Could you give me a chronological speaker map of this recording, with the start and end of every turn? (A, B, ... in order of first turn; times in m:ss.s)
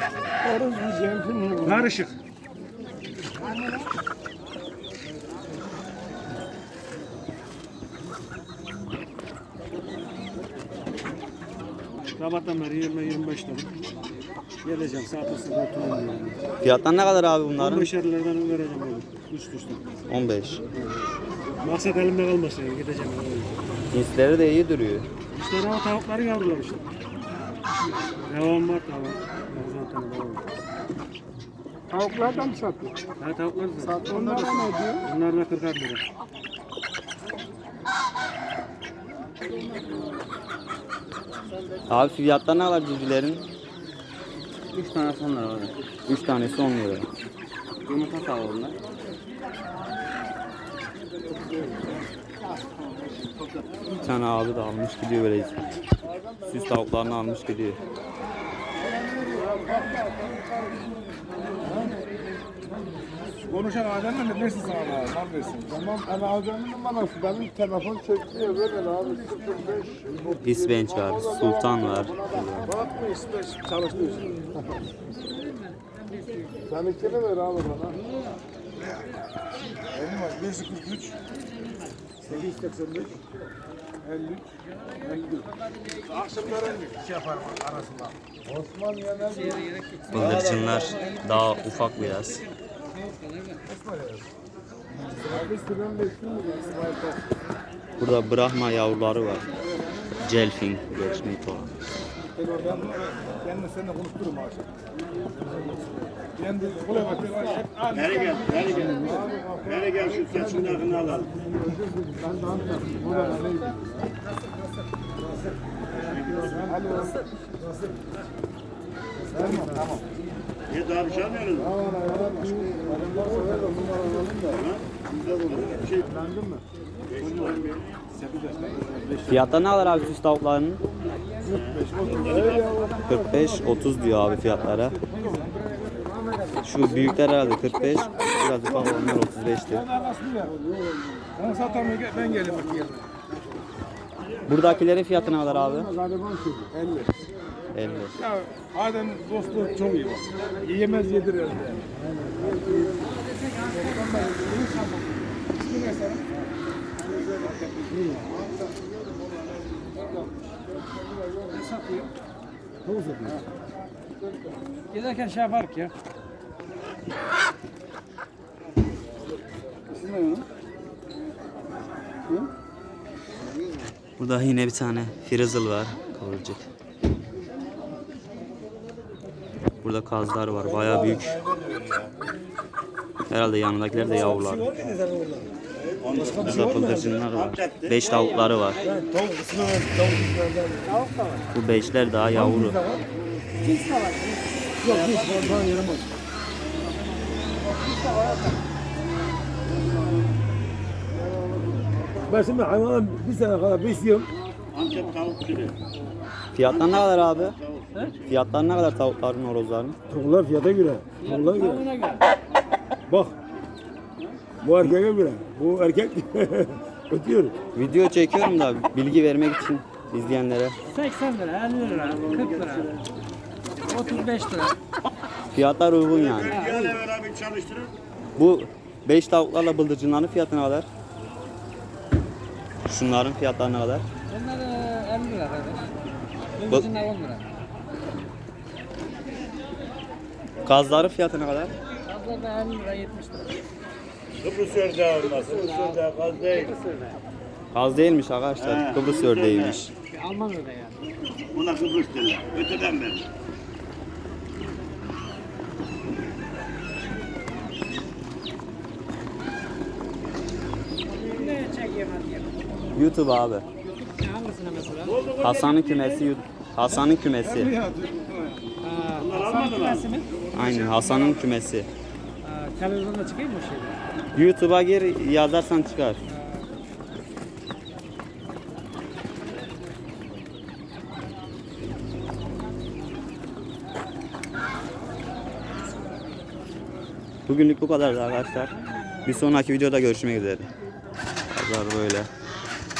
0:00.4-0:01.8 A
0:01.6-0:02.2 B
0:12.2-0:13.7 B
0:14.6-0:16.4 B
0:16.6-0:17.9 C
0:17.6-0:19.8 B
0:20.1-0:20.6 C
0:21.6-0:23.6 B
0:23.9-0:25.1 C
0:25.3-0:26.8 B
0:28.2-0:30.4 B
0:32.0-0:32.9 A
0:33.2-0:36.0 B
0:34.1-0:34.8 A
0:41.9-0:43.4 C
0:44.7-0:45.7 D
0:46.1-0:47.1 C
0:47.8-0:48.7 D
0:53.9-0:55.6 C
0:56.4-0:57.8 C
1:03.4-1:10.4 A
1:10.4-1:12.7 C
1:12.6-1:14.5 A
1:16.7-1:17.9 A
1:19.9-1:21.1 A
1:22.3-1:23.1 A
1:24.0-1:24.5 A
1:25.0-1:25.4 A
1:26.1-1:26.8 B
1:28.8-1:29.2 A
1:29.3-1:31.7 B
1:30.1-1:32.4 C
1:33.8-1:34.2 A
1:35.3-1:37.2 A
1:38.0-1:39.5 C
1:40.2-1:41.7 C
1:42.3-1:44.6 A
1:46.4-1:49.2 A
1:47.9-1:49.1 E
1:49.6-1:51.3 E
1:49.9-1:51.0 A
1:52.4-1:53.8 A
1:56.0-1:56.6 E
1:56.7-1:57.1 A
1:59.4-2:00.0 A
2:00.7-2:01.7 E
2:01.7-2:04.6 A
2:04.6-2:06.0 E
2:07.1-2:07.7 E
2:08.2-2:09.2 A
2:09.3-2:10.8 C
2:11.6-2:12.6 E
2:11.7-2:13.1 A
2:13.0-2:15.0 C
2:15.1-2:15.5 A
2:16.6-2:19.9 C
2:19.7-2:20.5 A
2:21.4-2:23.0 A
2:24.4-2:25.9 C
2:26.0-2:27.1 A
2:27.7-2:28.2 C
2:28.2-2:31.8 A
2:33.3-2:35.0 B
2:35.6-2:36.2 A
2:41.5-2:42.1 B
2:44.9-2:45.9 B
2:54.2-2:56.6 C
2:59.8-3:01.4 C
3:01.5-3:02.0 E
3:03.3-3:04.7 C
3:04.3-3:05.2 A
3:06.0-3:06.8 E
3:06.4-3:08.8 C
3:07.3-3:08.0 E
3:08.1-3:08.9 B
3:08.9-3:10.8 A
3:10.8-3:11.4 B
3:11.5-3:12.8 C
3:12.4-3:13.0 A
3:13.6-3:14.4 B
3:14.8-3:16.0 A
3:14.9-3:15.5 E
3:17.9-3:18.5 B
3:22.3-3:24.3 A
3:24.7-3:25.7 E
3:26.5-3:27.6 C
3:26.7-3:28.1 E
3:28.2-3:30.0 C
3:30.1-3:31.7 A
3:31.2-3:32.2 B
3:34.6-3:37.5 A
3:37.7-3:40.8 C
3:40.9-3:42.9 B
3:42.0-3:42.8 E
3:43.8-3:44.7 B
3:45.5-3:46.7 C
3:46.2-3:47.9 E
3:46.5-3:46.9 B
3:48.4-3:50.9 C
3:52.9-3:54.0 C
3:54.3-3:55.9 B
3:56.6-3:57.4 B
4:00.6-4:01.7 C
4:02.0-4:03.5 B
4:04.4-4:06.7 E
4:05.2-4:07.2 B
4:07.7-4:09.9 C
4:08.6-4:09.7 E
4:10.1-4:11.0 B
4:11.5-4:13.2 E
4:21.2-4:22.5 B
4:22.9-4:23.6 C
4:24.0-4:25.2 B
4:25.2-4:26.2 E
4:25.4-4:27.8 C
4:27.6-4:28.5 A
4:28.8-4:30.3 B
4:29.2-4:30.0 E
4:30.5-4:31.9 C
4:31.0-4:31.4 B
4:32.4-4:34.0 B
4:34.3-4:36.2 C
4:47.5-4:48.7 C
4:49.2-4:50.7 C
4:51.5-4:52.3 C